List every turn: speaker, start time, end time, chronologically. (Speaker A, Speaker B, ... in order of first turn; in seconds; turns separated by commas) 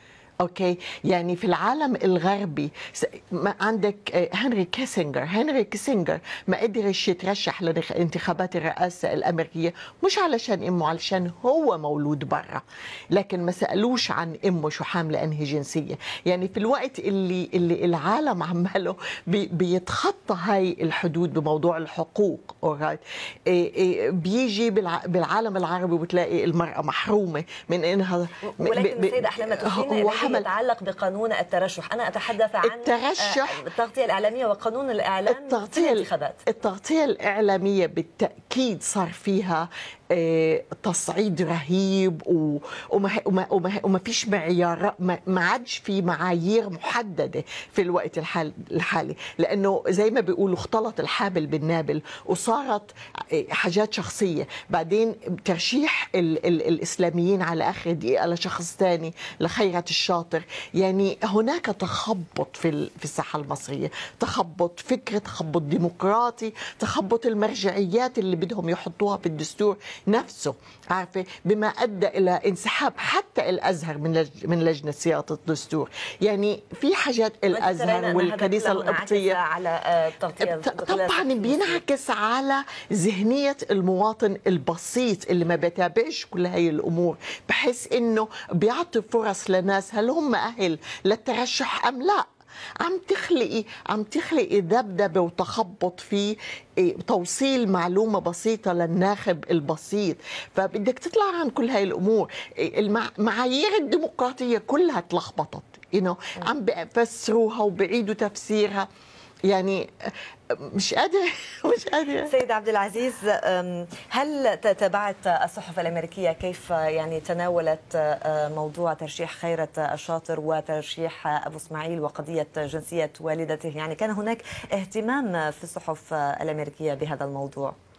Speaker A: 0.4-30.4, Speaker B: 28.4-36.4, Speaker A: 32.6-33.6, Speaker A: 35.3-79.4, Speaker B: 77.5-81.8, Speaker A: 80.4-92.2, Speaker A: 92.8-108.9, Speaker A: 109.5-112.3, Speaker B: 112.2-127.7